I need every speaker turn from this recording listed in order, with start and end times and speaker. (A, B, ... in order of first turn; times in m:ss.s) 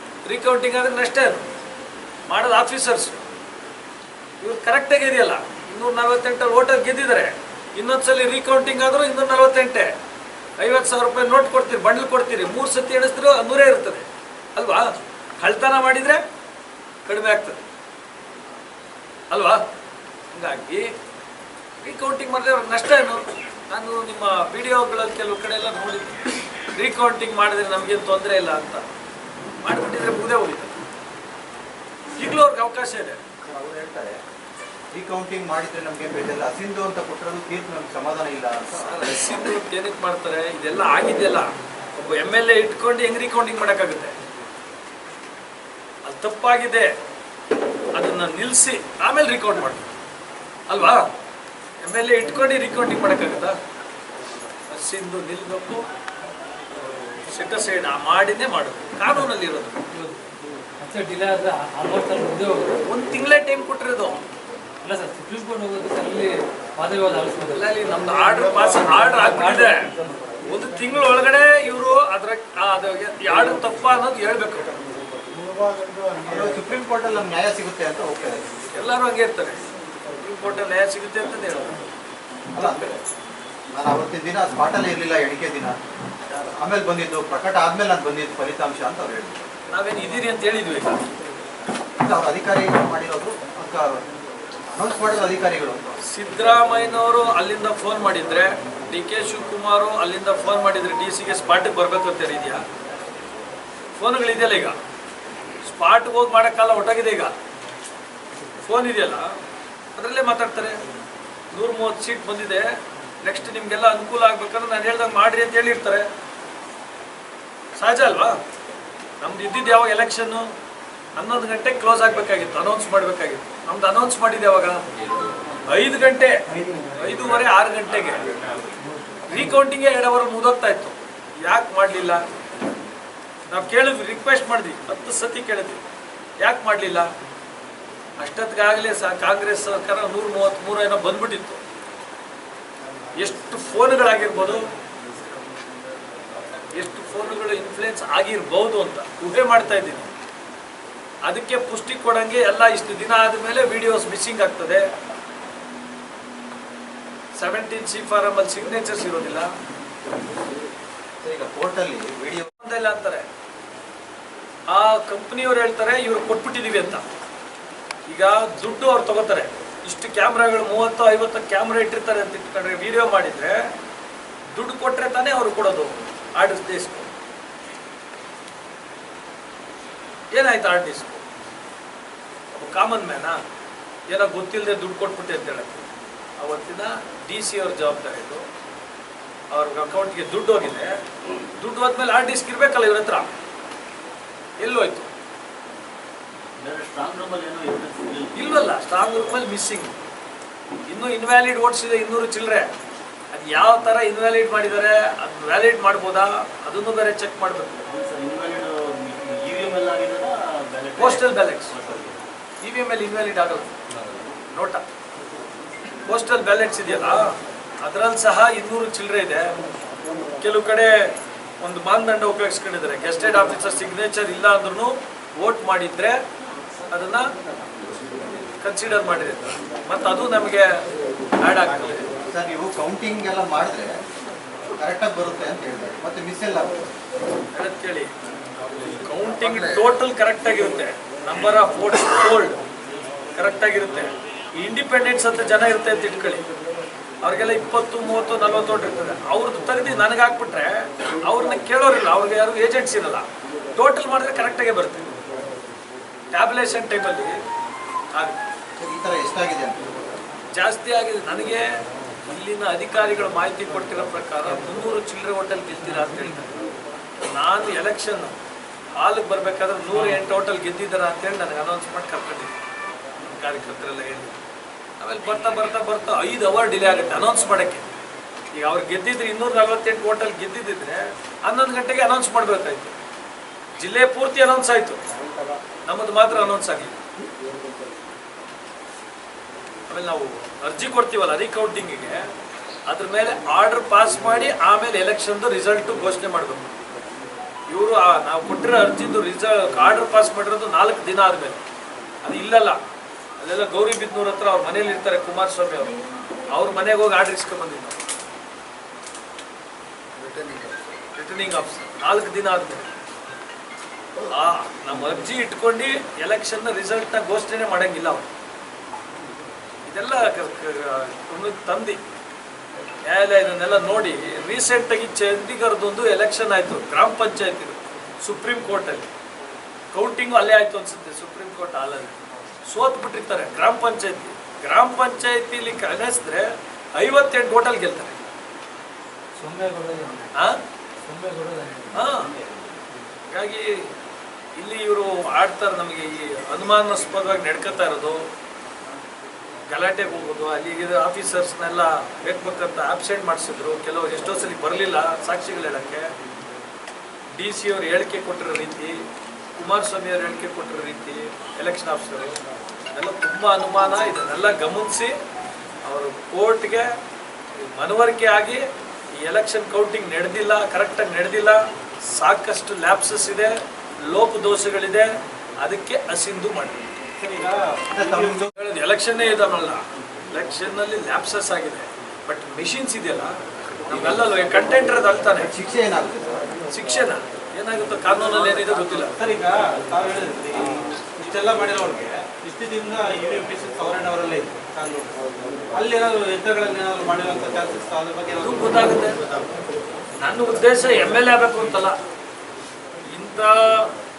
0:00.2-0:01.5 A
0:02.3-0:03.2 A
0:04.4-0:09.9 A
0:10.6-0:16.2 A
0:17.1-0:17.6 A
0:19.3-0:19.6 A
0:20.3-0:20.9 A
0:21.8-0:26.2 A
0:26.8-0:28.9 A
0:29.6-0:30.7 A
0:32.2-0:33.2 A
0:33.4-0:34.2 B
0:34.9-0:39.3 B
0:38.7-0:44.2 A
0:46.0-0:46.9 A
0:47.9-0:49.9 A
0:50.7-0:51.1 A
0:51.8-0:53.6 A
0:54.7-0:55.8 A
0:56.8-0:59.8 A
0:59.9-1:00.2 C
1:00.8-1:02.8 C
1:02.9-1:04.2 A
1:04.8-1:07.9 C
1:07.5-1:09.9 A
1:09.1-1:10.1 C
1:10.5-1:14.8 A
1:15.4-1:16.1 C
1:15.6-1:16.2 D
1:16.2-1:18.6 B
1:18.8-1:19.6 A
1:20.2-1:21.8 A
1:22.6-1:23.0 B
1:23.7-1:25.8 B
1:26.3-1:29.5 B
1:29.7-1:31.1 A
1:32.0-1:34.0 B
1:34.7-1:35.8 B
1:36.1-1:42.6 A
1:44.0-1:44.8 A
1:45.7-1:47.3 A
1:48.6-1:49.3 A
1:50.0-1:50.8 A
1:51.5-1:52.7 A
1:53.2-1:56.1 A
1:57.8-1:58.4 A
1:59.2-2:00.5 A
2:01.2-2:04.8 A
2:05.7-2:06.4 A
2:07.0-2:08.3 A
2:09.3-2:12.2 A
2:13.5-2:15.8 A
2:16.4-2:17.1 A
2:18.2-2:21.6 A
2:23.2-2:24.6 A
2:26.7-2:30.1 A
2:31.3-2:34.9 A
2:37.4-2:39.5 A
2:41.2-2:42.5 B
2:42.5-2:43.3 A
2:44.7-2:47.0 A
2:48.1-2:53.6 A
2:54.6-2:57.1 A
3:00.3-3:01.2 A
3:02.5-3:03.4 A
3:04.1-3:05.9 A
3:06.4-3:08.4 A
3:09.5-3:11.0 A
3:11.6-3:13.3 A
3:14.6-3:15.1 A
3:16.6-3:18.6 E
3:18.4-3:20.0 A
3:20.9-3:22.7 A
3:23.3-3:27.9 A
3:27.9-3:32.2 E
3:31.0-3:31.8 A
3:32.6-3:33.7 A
3:34.5-3:34.8 A
3:36.1-3:39.5 A
3:40.4-3:46.2 A
3:46.9-3:47.3 A
3:48.6-3:50.7 A
3:51.4-3:52.1 A
3:52.3-3:54.0 B
3:54.7-3:56.8 B
3:57.5-3:58.1 A
3:59.0-4:02.6 A
4:03.4-4:06.4 A
4:07.2-4:15.1 A
4:16.3-4:17.3 A
4:18.8-4:19.8 B
4:20.5-4:21.6 A
4:22.2-4:26.6 A
4:27.2-4:28.4 A
4:29.0-4:32.6 A
4:33.2-4:34.4 A
4:35.0-4:37.9 A
4:38.6-4:42.9 A
4:43.8-4:45.0 A
4:45.9-4:47.0 A
4:49.9-4:52.2 A
4:52.9-4:56.7 A
4:57.7-5:01.6 A
5:02.2-5:02.8 A
5:03.4-5:06.0 A
5:06.6-5:08.0 A
5:11.2-5:12.9 A
5:14.3-5:18.3 A
5:19.9-5:22.0 A
5:23.0-5:29.1 A
5:29.9-5:38.3 A
5:39.4-5:40.3 C
5:40.4-5:40.6 A
5:41.1-5:42.0 C
5:41.9-5:42.3 A
5:42.1-5:42.5 E
5:43.3-5:43.9 A
5:44.6-5:48.2 A
5:49.7-5:56.1 A
5:57.4-5:59.0 A
5:59.6-6:02.4 A
6:02.9-6:05.2 A
6:05.8-6:06.9 A
6:07.6-6:08.6 A
6:09.2-6:15.1 A
6:15.6-6:16.8 A
6:17.2-6:18.5 D
6:17.9-6:18.5 B
6:18.6-6:19.8 A
6:20.3-6:23.3 A
6:23.9-6:25.5 A
6:25.4-6:26.5 B
6:26.7-6:29.2 A
6:28.1-6:35.2 D
6:35.7-6:39.4 D
6:38.4-6:39.2 A
6:40.2-6:42.0 A
6:43.1-6:43.9 A